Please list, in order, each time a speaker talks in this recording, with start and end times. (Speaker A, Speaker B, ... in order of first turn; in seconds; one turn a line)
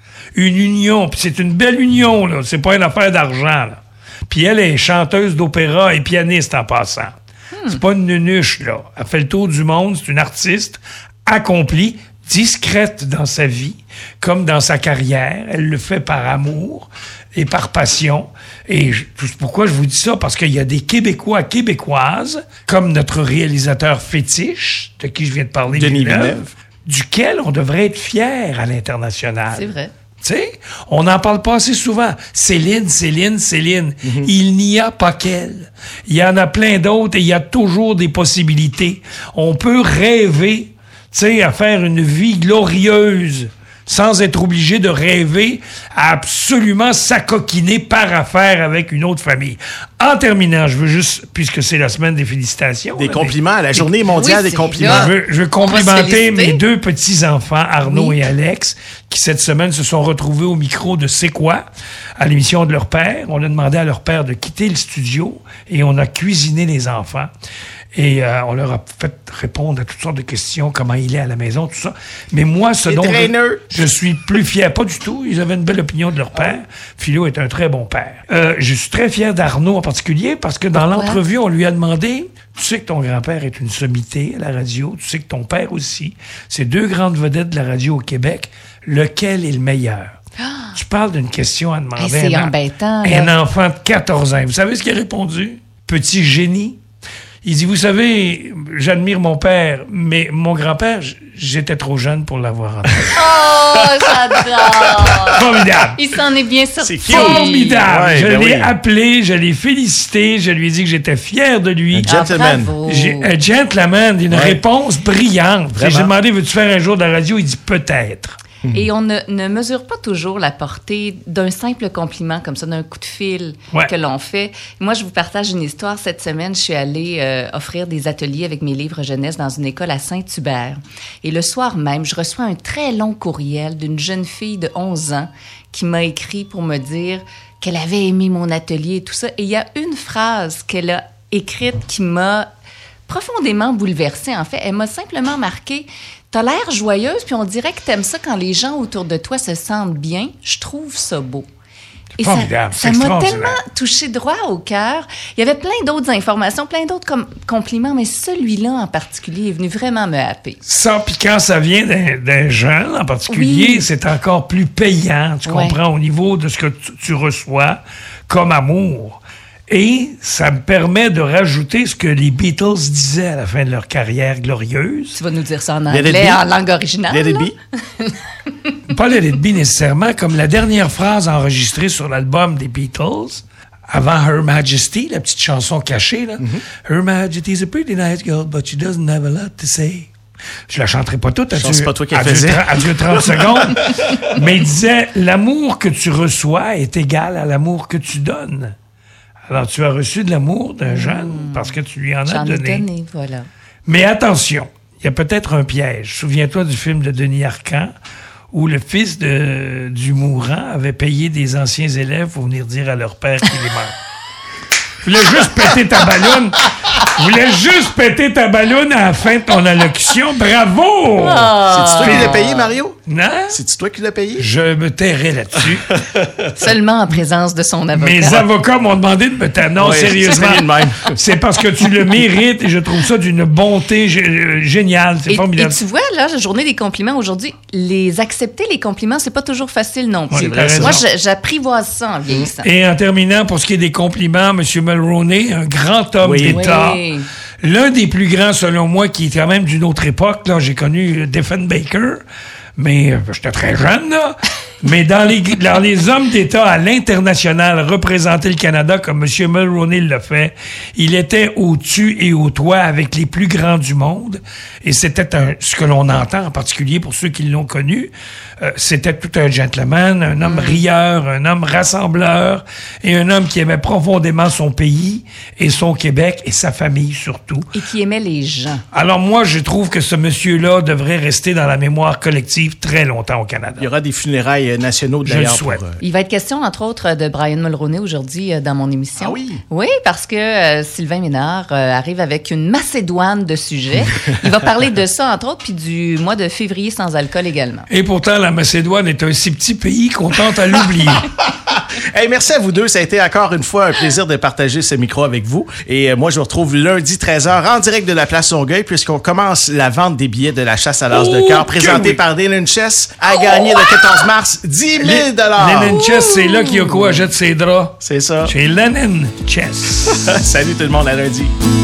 Speaker A: 0.3-53.8
Speaker B: 7.5-7.8
Speaker C: 25.7-26.5
Speaker B: 29.5-29.9
Speaker C: 34.0-34.3
Speaker C: 53.0-55.1
Speaker B: 54.0-56.6
Speaker A: 54.8-61.6
Speaker B: 57.8-58.2
Speaker A: 62.2-67.3
Speaker A: 67.9-90.2
Speaker C: 72.9-73.7
Speaker B: 80.8-81.2
Speaker B: 90.4-90.8
Speaker A: 90.8-96.8
Speaker B: 92.0-93.3
Speaker A: 97.4-103.2
Speaker B: 103.1-107.8
Speaker A: 105.3-106.0
Speaker C: 106.8-108.8
Speaker A: 107.0-112.1
Speaker C: 111.9-112.7
Speaker B: 112.1-113.3
Speaker A: 112.8-118.3
Speaker C: 114.3-114.6
Speaker C: 115.7-116.1
Speaker B: 118.7-142.5
Speaker B: 143.1-151.5
Speaker A: 152.2-153.6
Speaker B: 152.2-160.6
Speaker A: 160.6-175.2
Speaker B: 163.3-163.9
Speaker B: 165.5-165.8
Speaker B: 175.1-178.2
Speaker C: 175.9-176.4
Speaker C: 177.1-177.5
Speaker A: 178.9-190.1
Speaker A: 190.7-198.8
Speaker C: 191.5-192.8
Speaker A: 199.5-202.8
Speaker B: 200.8-201.7
Speaker B: 202.2-203.5
Speaker A: 203.8-207.9
Speaker A: 208.5-213.9
Speaker A: 215.0-222.4
Speaker B: 221.1-222.8
Speaker C: 221.7-223.0
Speaker A: 223.1-223.6
Speaker C: 223.5-224.5
Speaker A: 224.4-226.0
Speaker C: 225.9-226.5
Speaker B: 226.6-228.5
Speaker A: 227.9-235.8
Speaker C: 229.8-231.2
Speaker B: 235.3-242.7
Speaker A: 240.3-241.0
Speaker C: 240.3-241.0
Speaker A: 242.6-247.0
Speaker C: 246.2-246.7
Speaker B: 246.5-247.3
Speaker A: 247.6-252.2
Speaker A: 252.8-277.7
Speaker B: 270.4-270.8
Speaker B: 277.7-278.8
Speaker A: 278.9-283.9
Speaker C: 283.8-286.0
Speaker A: 285.2-285.8
Speaker B: 286.0-297.9
Speaker C: 289.2-289.6
Speaker A: 297.9-301.3
Speaker C: 301.7-316.0
Speaker A: 311.1-312.2
Speaker A: 315.0-320.2
Speaker B: 316.3-317.0
Speaker C: 318.0-318.5
Speaker C: 320.1-321.5